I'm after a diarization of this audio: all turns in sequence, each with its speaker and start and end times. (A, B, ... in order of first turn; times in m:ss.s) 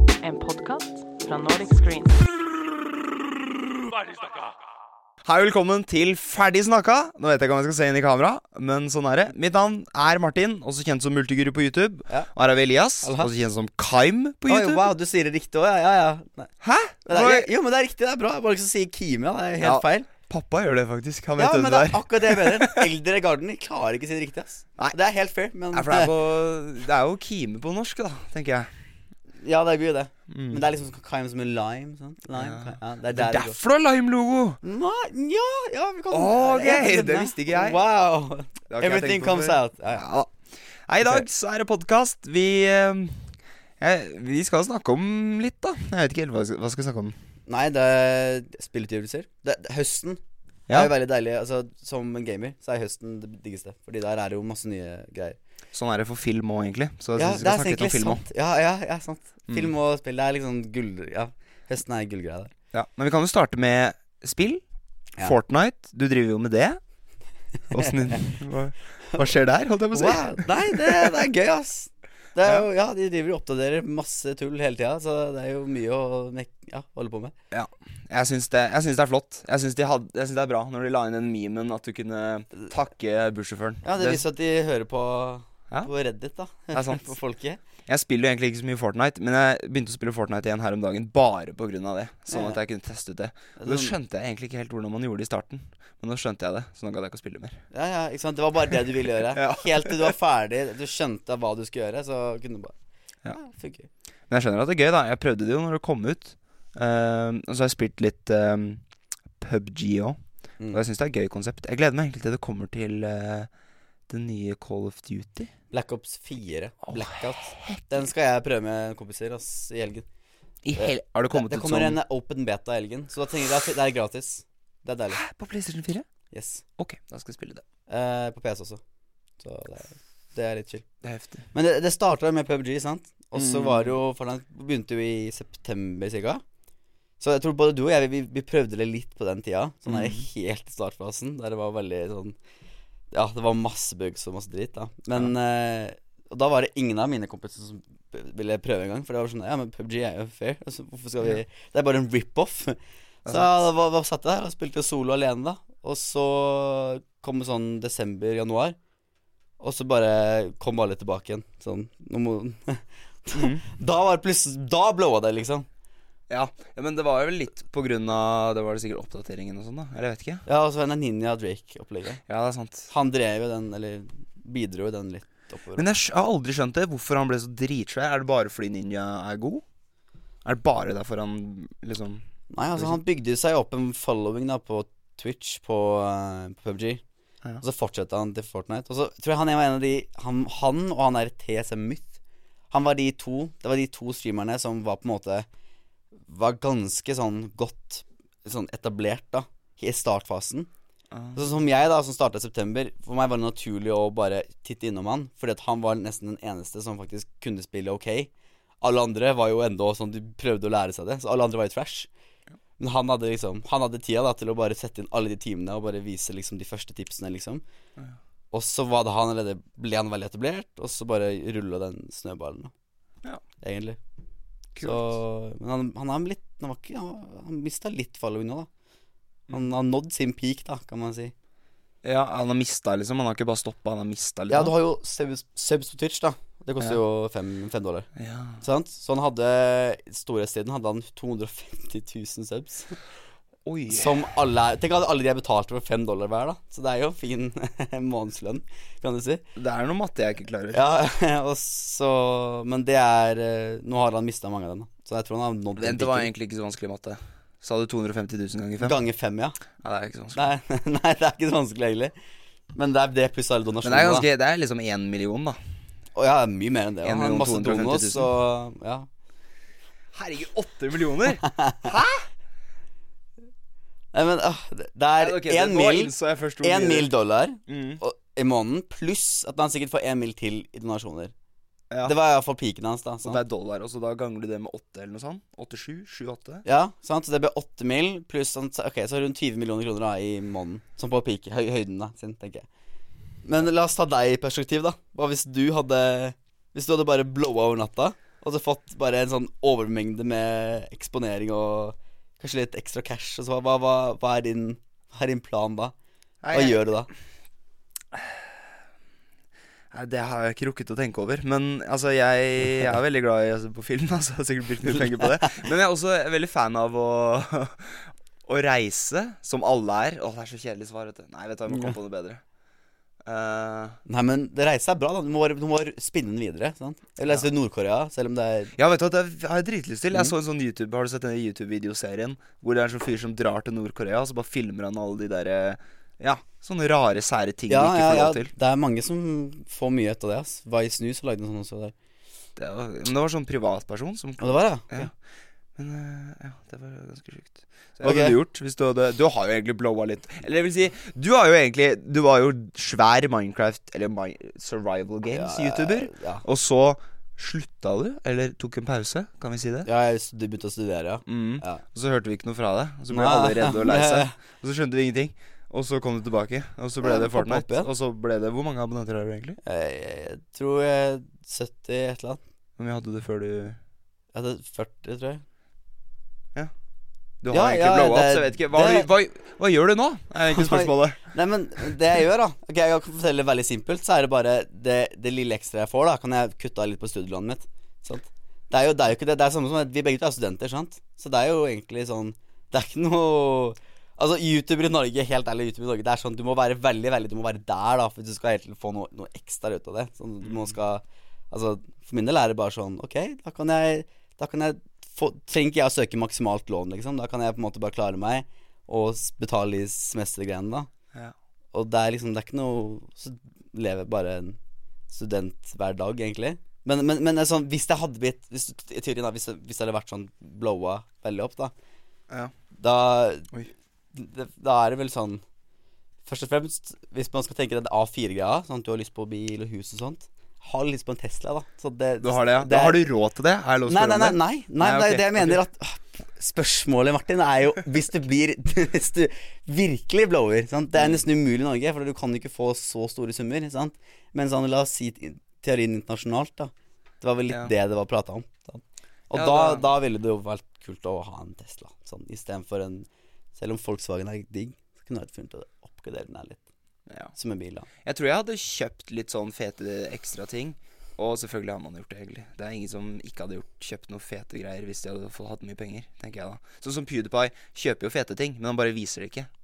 0:00.2-0:02.3 A
0:05.2-0:14.9 B
0:13.0-0:13.3 C
0:14.5-0:16.5 C
0:16.6-0:17.5 B
0:17.1-0:20.1 C
0:19.6-0:22.8 B
0:21.4-0:26.1 C
0:25.7-0:28.7 B
0:29.4-0:33.6 C
0:30.3-0:30.6 B
0:32.3-0:34.6 B
0:34.6-0:40.0 C
0:36.1-0:37.8 B
0:38.7-0:40.3 B
0:40.9-0:47.1 B
0:47.5-0:50.2 C
0:50.7-0:55.4 C
0:55.7-0:58.2 B
0:57.2-1:02.5 C
1:02.7-1:04.6 B
1:05.2-1:06.8 B
1:07.7-1:11.2 B
1:07.8-1:08.3 C
1:09.9-1:17.3 C
1:17.5-1:24.2 B
1:23.8-1:27.6 C
1:26.7-1:27.2 B
1:27.9-1:37.6 B
1:32.3-1:32.6 C
1:33.6-1:34.0 C
1:37.7-1:42.7 C
1:39.2-1:40.1 B
1:43.3-1:43.9 C
1:44.3-1:48.8 B
1:49.4-1:50.2 B
1:50.7-1:53.5 B
1:54.1-1:55.5 B
1:55.7-2:00.0 C
1:56.9-1:57.8 B
2:00.6-2:02.0 B
2:00.8-2:05.2 C
2:05.1-2:06.0 B
2:06.3-2:06.6 C
2:06.8-2:07.6 B
2:07.9-2:08.8 C
2:09.4-2:10.8 C
2:11.0-2:11.4 B
2:11.5-2:16.4 C
2:13.3-2:14.0 B
2:17.2-2:22.4 C
2:19.9-2:20.2 B
2:23.1-2:38.8 C
2:33.2-2:33.5 B
2:39.6-2:45.7 C
2:43.3-2:43.6 B
2:46.3-2:50.4 B
2:50.4-2:52.2 C
2:52.2-2:52.9 B
2:52.9-2:55.8 C
2:55.8-2:59.6 B
3:00.4-3:02.2 B
3:02.5-3:07.0 C
3:07.6-3:12.1 C
3:12.7-3:15.5 C
3:16.3-3:20.7 C
3:21.1-3:21.4 B
3:21.3-3:28.3 C
3:28.8-3:32.1 C
3:32.8-3:37.6 C
3:38.5-3:42.7 C
3:43.6-3:44.0 C
3:44.7-3:45.2 B
3:44.8-3:48.7 C
3:49.5-3:51.3 C
3:52.0-3:54.7 B
3:54.5-3:58.1 C
3:58.2-3:58.6 B
3:58.6-4:03.0 C
4:03.6-4:04.2 B
4:03.9-4:09.4 C
4:09.6-4:10.8 B
4:10.7-4:16.3 C
4:15.8-4:19.0 B
4:18.8-4:19.6 C
4:19.8-4:20.4 B
4:20.3-4:22.1 C
4:22.7-4:24.3 C
4:23.8-4:25.6 B
4:26.2-4:29.1 C
4:27.0-4:28.3 B
4:30.1-4:32.3 B
4:31.4-4:31.9 C
4:34.1-4:41.3 C
4:35.2-4:37.1 B
4:37.7-4:38.0 B
4:42.0-4:43.4 C
4:43.2-4:46.6 B
4:46.6-4:52.7 C
4:53.4-5:05.9 C
5:06.4-5:06.8 B
5:06.5-5:07.1 C
5:09.9-5:22.4 B
5:15.2-5:15.6 C
5:23.2-5:24.0 B
5:24.0-5:28.7 C
5:28.8-5:38.5 B
5:37.7-5:41.9 C
5:42.6-5:45.1 B
5:44.4-5:45.1 C
5:45.8-5:59.9 B
5:48.0-5:48.4 C
5:55.3-5:56.4 C
5:59.8-6:01.8 C
6:01.3-6:09.6 B
6:03.1-6:04.4 C
6:07.0-6:07.9 C
6:09.6-6:12.4 C
6:12.8-6:13.8 B
6:14.3-6:15.4 C
6:17.4-6:21.2 B
6:17.5-6:19.1 C
6:20.5-6:50.9 C
6:40.4-6:40.7 B
6:51.7-6:54.6 C
6:55.1-7:01.7 C
7:02.8-7:03.5 C
7:04.1-7:05.4 C
7:06.2-7:13.0 C
7:12.2-7:15.6 B
7:13.9-7:36.6 C
7:20.9-7:21.2 B
7:29.3-7:29.9 B
7:37.3-7:37.9 C
7:38.0-7:49.5 B